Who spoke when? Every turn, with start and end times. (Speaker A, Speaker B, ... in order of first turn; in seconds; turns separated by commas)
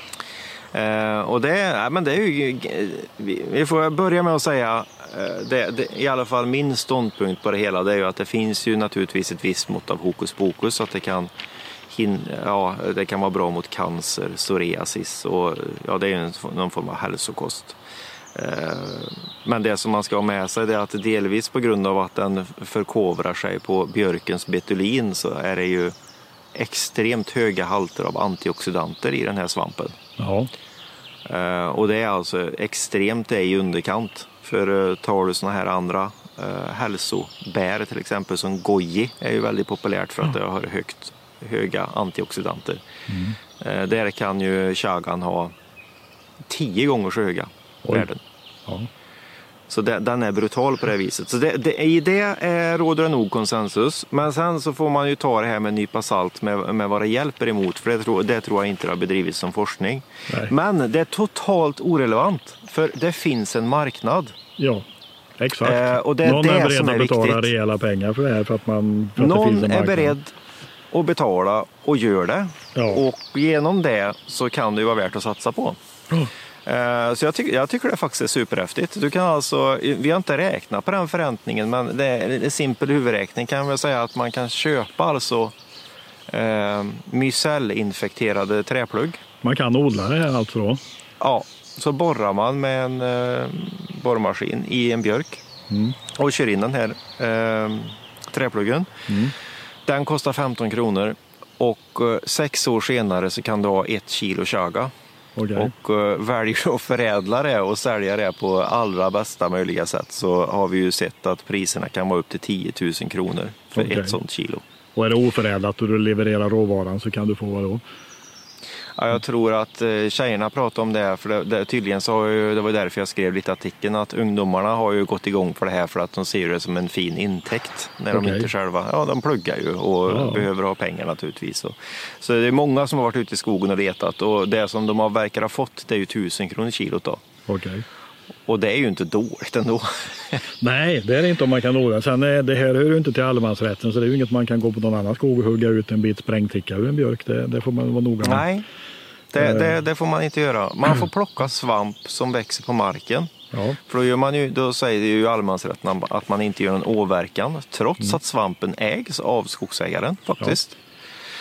Speaker A: 0.7-11.3, Speaker A: 11.9-17.8, Speaker A: 18.3-25.9, Speaker A: 26.5-30.0, Speaker B: 30.2-30.5, Speaker A: 31.2-42.8, Speaker B: 43.1-43.4, Speaker A: 43.6-45.5, Speaker A: 46.5-48.2, Speaker A: 49.7-64.3, Speaker B: 60.3-60.5, Speaker B: 64.6-64.8, Speaker B: 65.4-70.1, Speaker A: 65.6-67.5, Speaker A: 69.2-70.3, Speaker A: 70.9-75.8, Speaker B: 72.7-73.0, Speaker A: 76.7-85.5, Speaker A: 86.3-89.2, Speaker B: 89.4-90.8, Speaker A: 91.2-95.4, Speaker B: 95.7-96.0, Speaker A: 96.1-99.1, Speaker B: 99.1-99.3, Speaker A: 99.9-104.9, Speaker B: 105.3-105.7, Speaker A: 105.5-114.6, Speaker B: 113.7-114.2, Speaker B: 114.9-117.8, Speaker A: 119.0-137.2, Speaker B: 128.1-128.5, Speaker B: 130.1-130.5, Speaker B: 137.5-137.8, Speaker A: 138.5-140.4, Speaker B: 140.6-148.5, Speaker A: 148.2-148.6, Speaker A: 149.3-153.3, Speaker B: 149.4-149.7, Speaker B: 153.5-153.8, Speaker A: 153.8-160.8